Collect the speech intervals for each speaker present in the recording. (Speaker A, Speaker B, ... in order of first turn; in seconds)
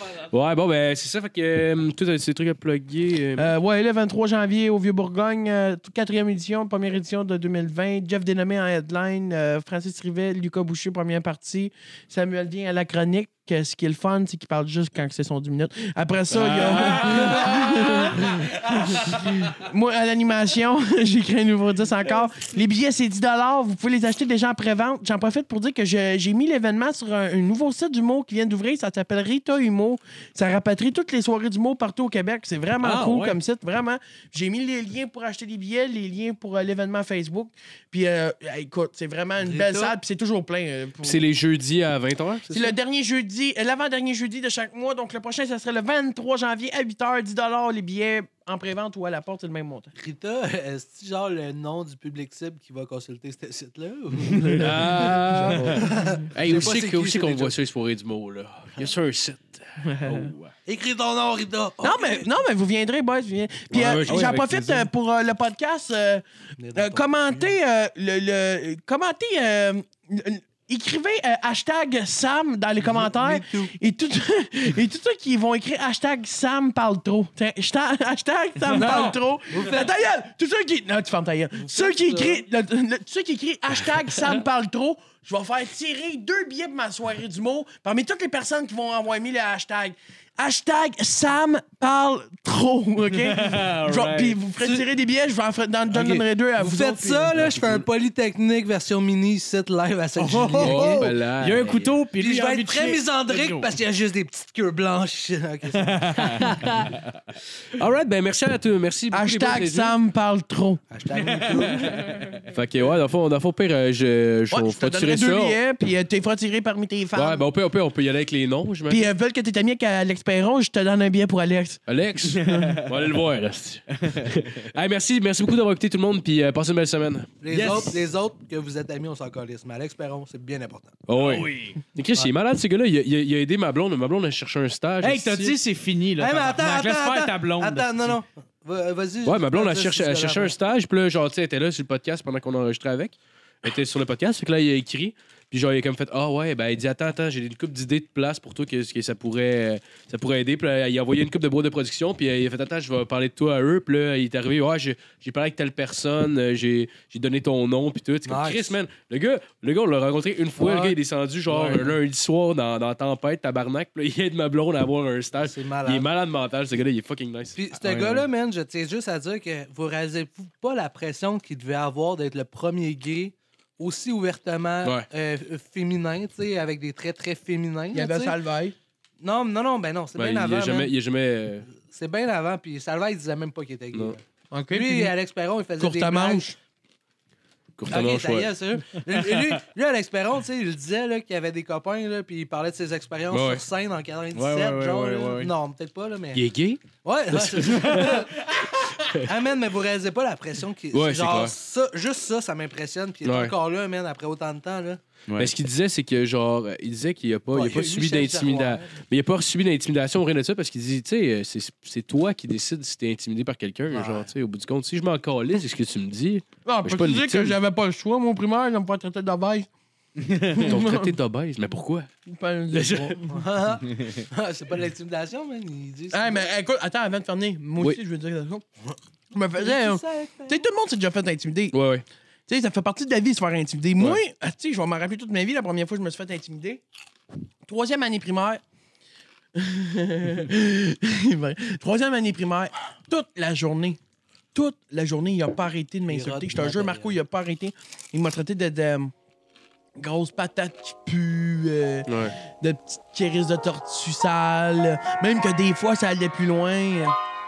Speaker A: 0.3-3.5, 41.0-42.5, 54.6-60.5, 63.7-64.5, 100.6-102.0, 106.4-106.7, 107.7-110.0, 112.5-115.6, 117.1-119.1, 121.9-127.4, 131.1-135.5, 139.2-167.6, 180.1-181.7, 187.8-188.5, 193.3-193.6, 196.3-198.3, 199.0-199.3, 200.9-201.5, 203.2-203.5, 205.4-217.6, 220.6-222.1, 222.7-223.2, 231.7-232.0, 252.1-252.3
Speaker B: 3.4-41.2, 42.5-49.9, 55.3-56.2, 59.8-60.3, 61.8-97.3, 100.2-100.9, 109.1-110.8, 114.5-117.4, 118.9-122.8, 177.9-178.7, 184.5-185.1, 185.8-186.6, 216.6-219.7, 220.4-221.1, 222.2-223.3, 226.1-228.6, 229.3-231.8, 232.5-236.8, 237.7-238.6, 239.5-244.0, 244.5-249.1, 250.0-257.1
Speaker C: 16.4-17.8, 32.8-33.4, 54.3-54.7, 55.4-55.8, 64.0-64.9, 78.7-79.0, 93.1-94.4, 95.9-96.2, 97.4-97.7, 100.2-103.7, 105.7-107.3, 111.2-112.4, 122.3-123.1, 124.0-124.4, 127.5-127.8, 131.1-131.5, 135.0-138.2, 161.5-161.9, 167.8-168.3, 194.3-195.5, 220.2-220.7
Speaker D: 39.4-40.0, 42.5-42.7, 49.9-57.5, 60.6-62.3, 66.6-67.5, 72.9-73.7, 78.7-79.9, 81.6-82.5, 96.6-101.1, 102.1-106.5, 110.9-112.1, 127.4-131.0, 136.2-140.6, 158.2-158.8, 160.6-161.0, 165.4-166.1, 167.6-178.4, 179.2-180.9, 181.7-186.5, 187.9-196.4, 197.0-205.0, 207.5-208.9, 213.9-214.3, 223.3-226.4, 229.5-230.6, 246.1-247.2